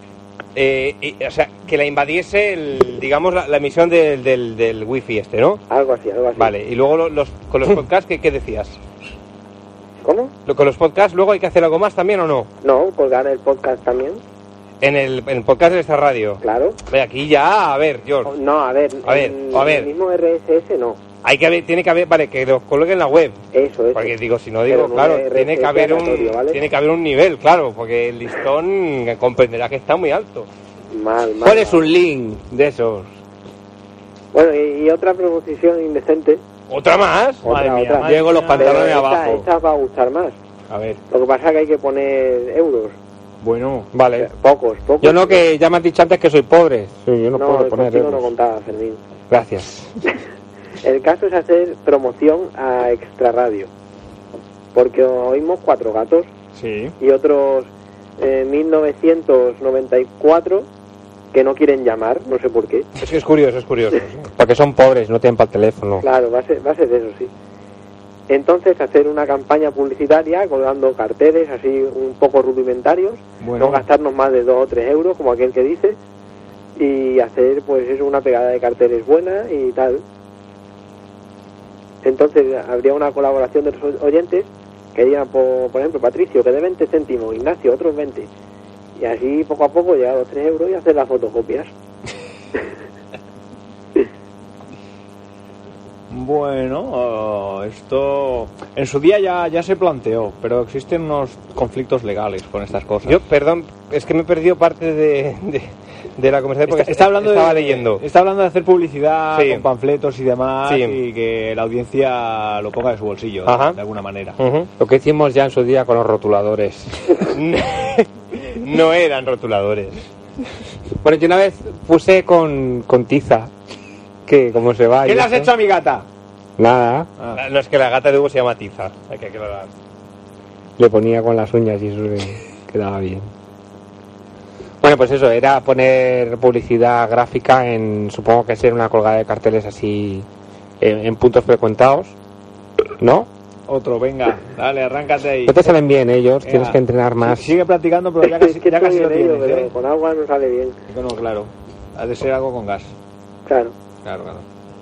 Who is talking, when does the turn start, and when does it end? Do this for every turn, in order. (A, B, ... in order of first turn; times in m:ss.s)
0:00.5-0:05.6 A
0:05.7-0:06.5 B
0:06.4-0:08.8 A
0:10.0-0:10.3 B
0:10.5-0:12.5 A
0:12.6-0:14.2 B
0:14.8-0:18.3 A
0:16.4-0:16.8 B
0:18.2-0:21.0 B
0:19.0-0:19.9 A
0:21.2-0:30.5 A
0:23.5-0:26.6 B
0:30.9-0:31.9 B
0:31.4-0:33.1 C
0:34.3-0:36.4 B
0:36.7-0:37.4 A
0:37.4-0:38.9 D
0:37.4-0:40.4 B
0:38.0-0:39.4 C
0:40.7-0:41.0 D
0:41.1-0:43.0 B
0:43.4-0:43.9 D
0:43.9-0:44.3 C
0:44.2-0:45.4 B
0:45.0-0:48.3 C
0:47.3-0:49.0 B
0:49.3-0:49.9 C
0:50.8-0:53.7 B
0:54.7-0:56.3 B
0:56.5-0:56.9 D
0:57.0-1:00.7 B
1:01.3-1:02.9 B
1:03.0-1:04.3 A
1:04.4-1:06.0 C
1:06.0-1:07.3 B
1:08.3-1:16.0 B
1:13.4-1:13.8 D
1:16.8-1:20.0 B
1:22.0-1:28.3 B
1:29.0-1:31.7 B
1:36.1-1:43.2 D
1:43.0-1:48.0 A
1:46.7-1:54.4 D
1:49.3-1:49.6 A
1:50.6-1:51.0 A
1:53.4-1:53.8 A
1:54.4-1:54.7 A
1:54.8-1:57.2 C
1:57.3-2:00.0 A
2:01.0-2:03.5 C
2:04.2-2:05.5 C
2:05.0-2:06.0 D
2:06.6-2:07.1 C
2:07.3-2:09.7 A
2:10.8-2:13.2 C
2:14.8-2:20.2 C
2:20.8-2:22.1 C
2:23.0-2:23.3 C
2:23.7-2:25.7 D
2:25.4-2:27.5 C
2:26.4-2:29.7 D
2:28.2-2:30.8 B
2:30.9-2:32.9 D
2:33.4-2:33.7 B
2:34.0-2:34.4 D